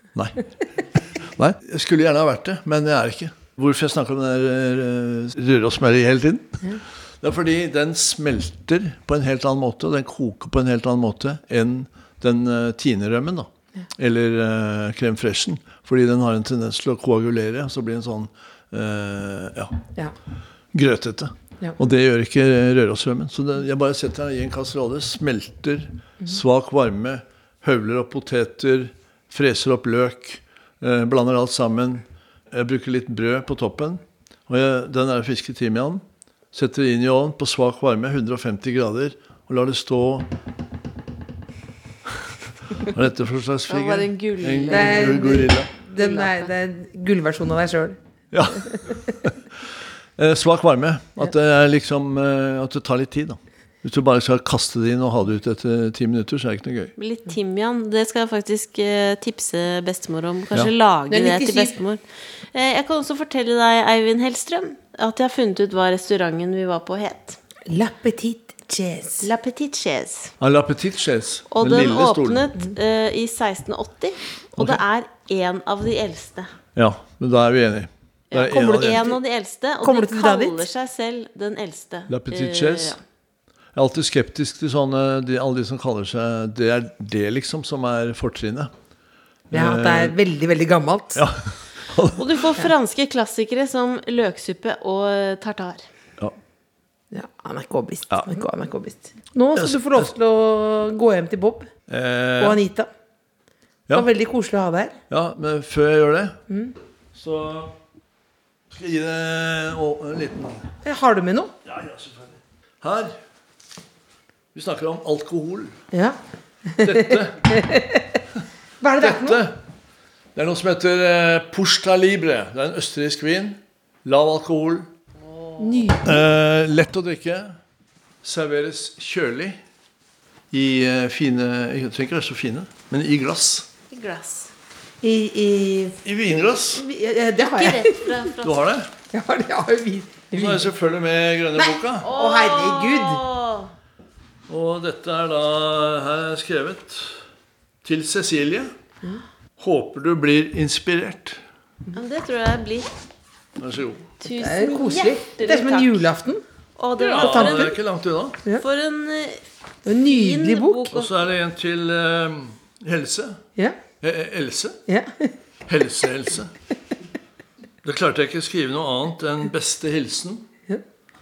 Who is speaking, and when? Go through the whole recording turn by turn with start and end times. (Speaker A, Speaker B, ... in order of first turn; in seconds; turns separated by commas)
Speaker A: 0.1-19.8, Speaker A: 20.7-40.3, Speaker A: 42.8-45.7, Speaker B: 43.7-46.5, Speaker C: 44.7-48.0, Speaker A: 48.3-49.6, Speaker C: 48.7-49.0, Speaker A: 50.2-56.9, Speaker B: 57.0-62.0, Speaker C: 61.1-61.8, Speaker B: 62.5-67.4, Speaker C: 67.7-69.3, Speaker B: 69.2-70.3, Speaker A: 70.4-72.5, Speaker B: 71.5-76.5, Speaker A: 76.7-79.1, Speaker B: 78.3-83.0, Speaker C: 78.7-79.2, Speaker C: 79.8-80.7, Speaker A: 82.1-83.0, Speaker A: 83.7-88.7, Speaker A: 89.5-90.2, Speaker C: 89.5-91.2, Speaker A: 91.1-92.4, Speaker B: 92.1-95.8, Speaker C: 97.1-101.7, Speaker A: 99.5-100.1, Speaker A: 101.9-102.6, Speaker C: 102.4-102.9, Speaker C: 103.9-105.0, Speaker A: 105.1-106.4, Speaker A: 107.1-107.7, Speaker A: 108.7-110.7, Speaker C: 110.8-111.5, Speaker A: 111.6-113.2, Speaker A: 114.5-115.8, Speaker C: 115.9-118.2, Speaker A: 116.8-117.7, Speaker C: 118.8-119.4, Speaker A: 119.0-119.6, Speaker A: 120.3-124.9, Speaker B: 125.5-125.8, Speaker C: 125.6-126.2, Speaker A: 126.0-127.6, Speaker A: 128.2-129.6, Speaker A: 130.5-133.7, Speaker B: 133.9-134.5, Speaker C: 135.0-135.9, Speaker A: 136.0-136.8, Speaker C: 136.7-138.2, Speaker B: 137.3-138.6, Speaker A: 138.4-138.9, Speaker C: 139.1-140.7, Speaker A: 140.3-142.1, Speaker C: 141.6-143.2, Speaker B: 142.0-143.7, Speaker A: 144.5-147.2, Speaker A: 147.8-148.7, Speaker A: 149.6-151.4, Speaker B: 151.9-152.9, Speaker A: 153.6-154.1, Speaker B: 154.2-156.0, Speaker C: 154.4-156.4, Speaker B: 156.8-157.8, Speaker C: 157.0-157.7, Speaker A: 157.1-158.4, Speaker B: 158.4-161.1, Speaker C: 159.8-160.9, Speaker A: 160.9-163.4, Speaker A: 164.0-164.8, Speaker C: 164.9-165.3, Speaker A: 165.7-166.5, Speaker A: 167.8-170.5